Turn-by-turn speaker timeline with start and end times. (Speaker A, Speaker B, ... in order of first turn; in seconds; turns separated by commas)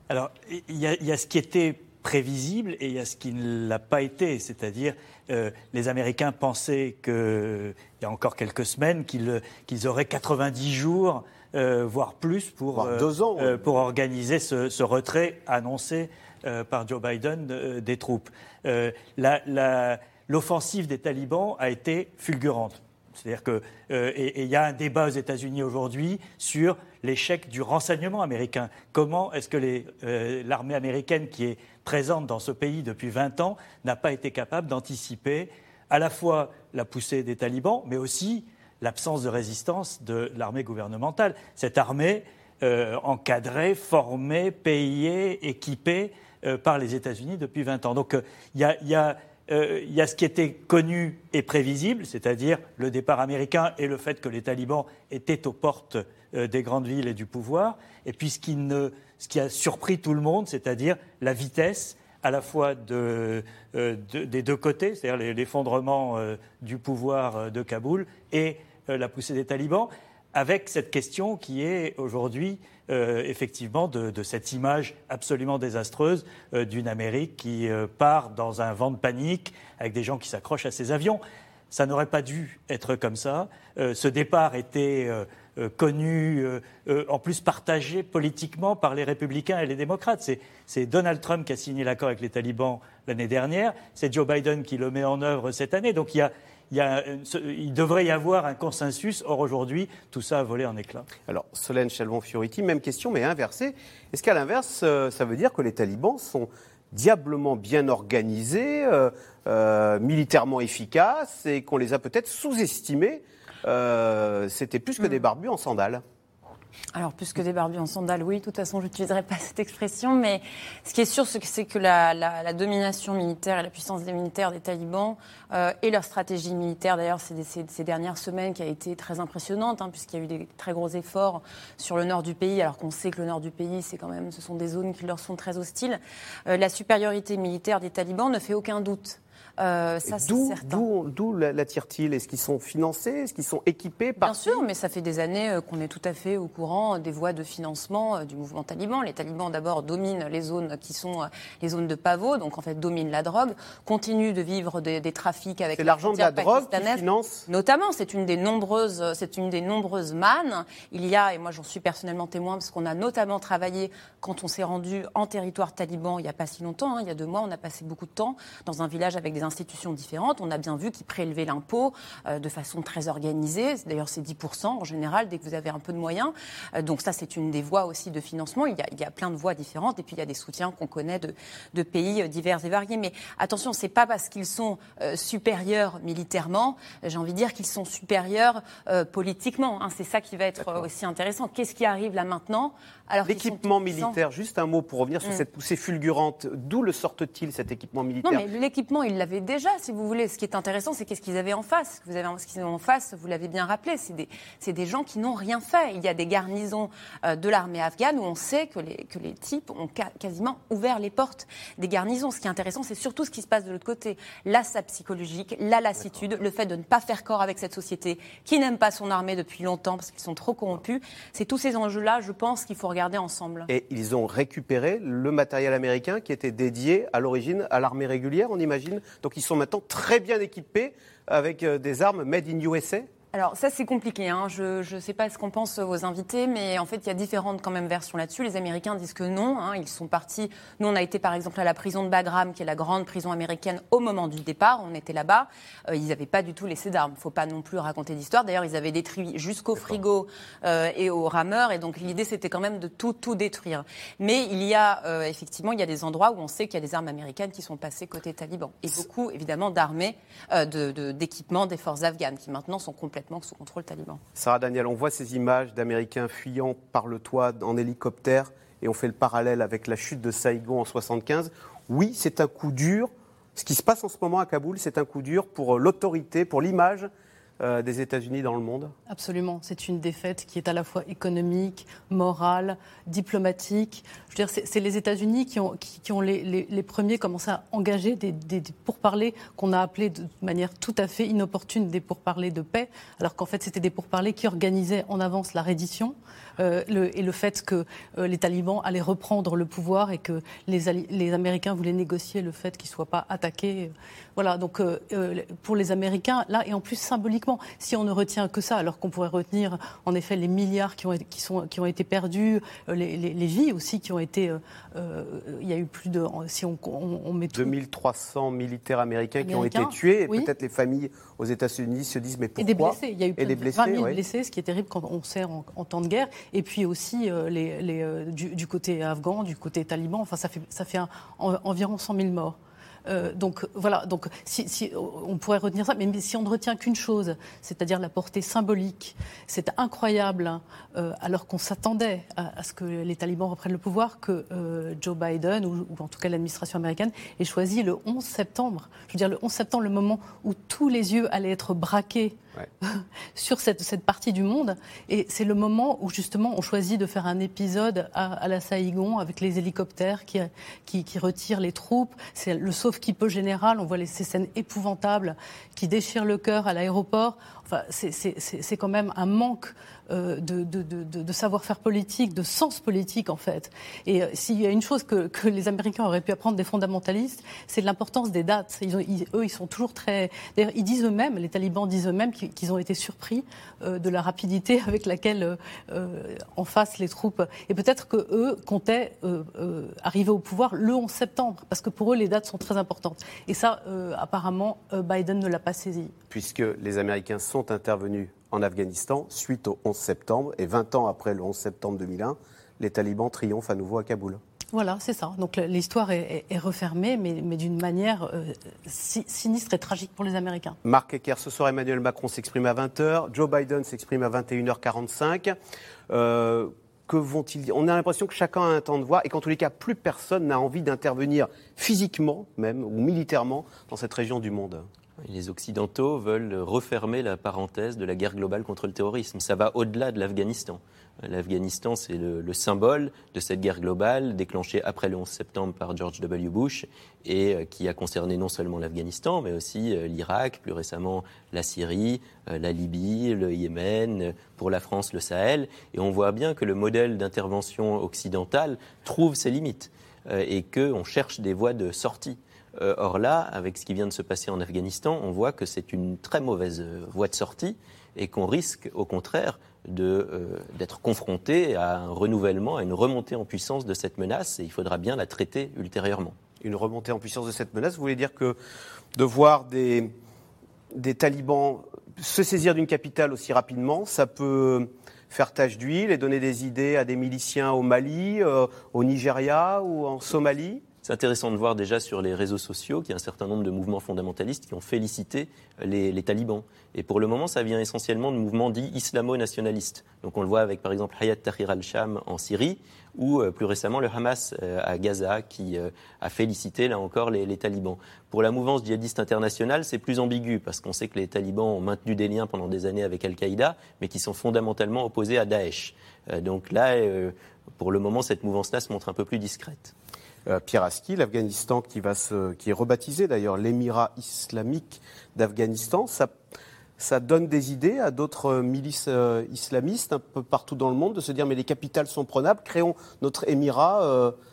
Speaker A: 0.1-101.1, Speaker B: 12.7-13.7, Speaker B: 101.3-116.0, Speaker C: 116.9-140.8, Speaker B: 140.1-144.7, Speaker C: 144.2-194.2, Speaker B: 155.8-157.5, Speaker B: 190.6-190.9, Speaker B: 193.2-198.5, Speaker C: 198.2-223.7, Speaker B: 223.7-233.1, Speaker C: 233.3-264.2, Speaker B: 264.4-277.1, Speaker B: 277.6-278.9, Speaker D: 279.1-317.7, Speaker B: 317.5-324.2, Speaker D: 319.4-320.5, Speaker D: 322.6-396.1, Speaker B: 396.3-404.4, Speaker D: 404.7-410.8, Speaker B: 410.8-415.6, Speaker B: 416.1-424.9, Speaker E: 425.2-466.4, Speaker B: 466.6-468.6, Speaker B: 469.2-470.1, Speaker B: 470.9-480.8, Speaker E: 481.0-509.9, Speaker B: 510.5-516.4, Speaker B: 517.0-524.4